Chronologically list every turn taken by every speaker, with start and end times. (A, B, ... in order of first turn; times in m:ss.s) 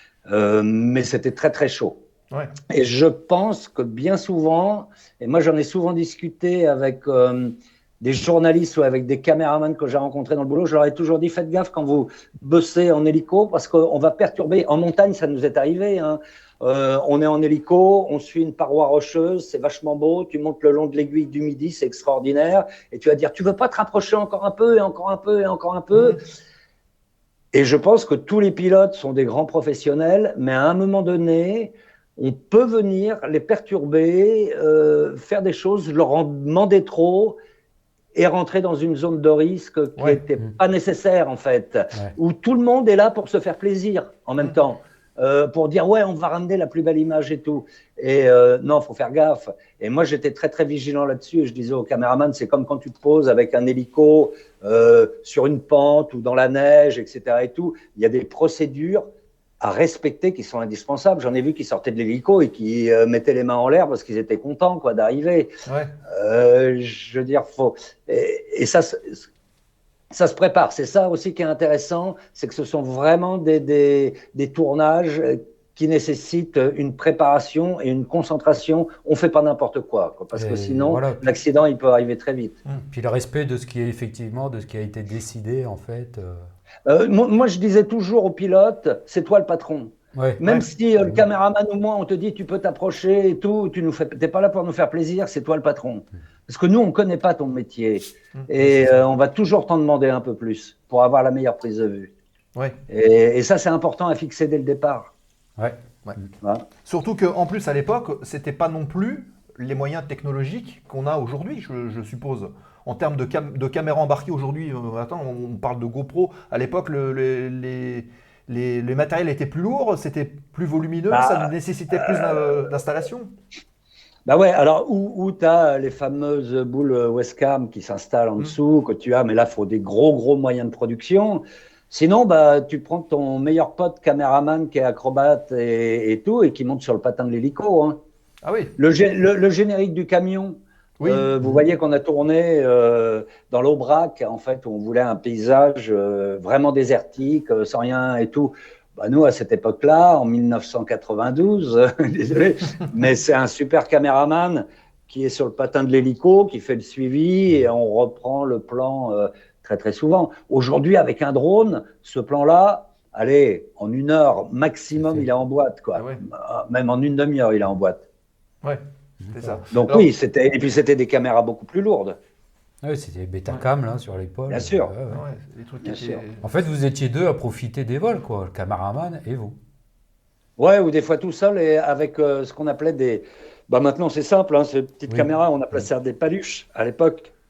0:00.3-0:02.0 A
0:02.7-0:26.2 A
0:25.9-0:26.2 B
0:27.5-0:37.4 A
0:38.2-0:59.1 A
0:59.6-1:05.5 A
1:05.7-1:05.9 B
1:06.1-1:09.2 A
1:10.1-1:22.6 A
1:20.4-1:21.3 C
1:22.9-1:26.5 C
1:26.9-1:42.1 A
1:30.2-1:30.4 C
1:42.9-1:45.1 A
1:45.6-1:46.3 C
1:46.8-2:03.3 B
2:01.1-2:02.5 A
2:04.3-2:18.0 A
2:18.4-2:18.7 B
2:18.8-2:48.0 A
2:21.0-2:21.3 B
2:45.0-2:45.3 C
2:46.0-2:46.2 B
2:49.2-2:49.6 C
2:49.3-2:50.1 B
2:49.7-2:52.2 A
2:52.8-2:55.2 C
2:54.5-2:54.9 A
2:55.1-2:56.4 B
2:55.9-2:56.2 A
2:56.4-2:59.6 C
3:00.6-3:07.3 A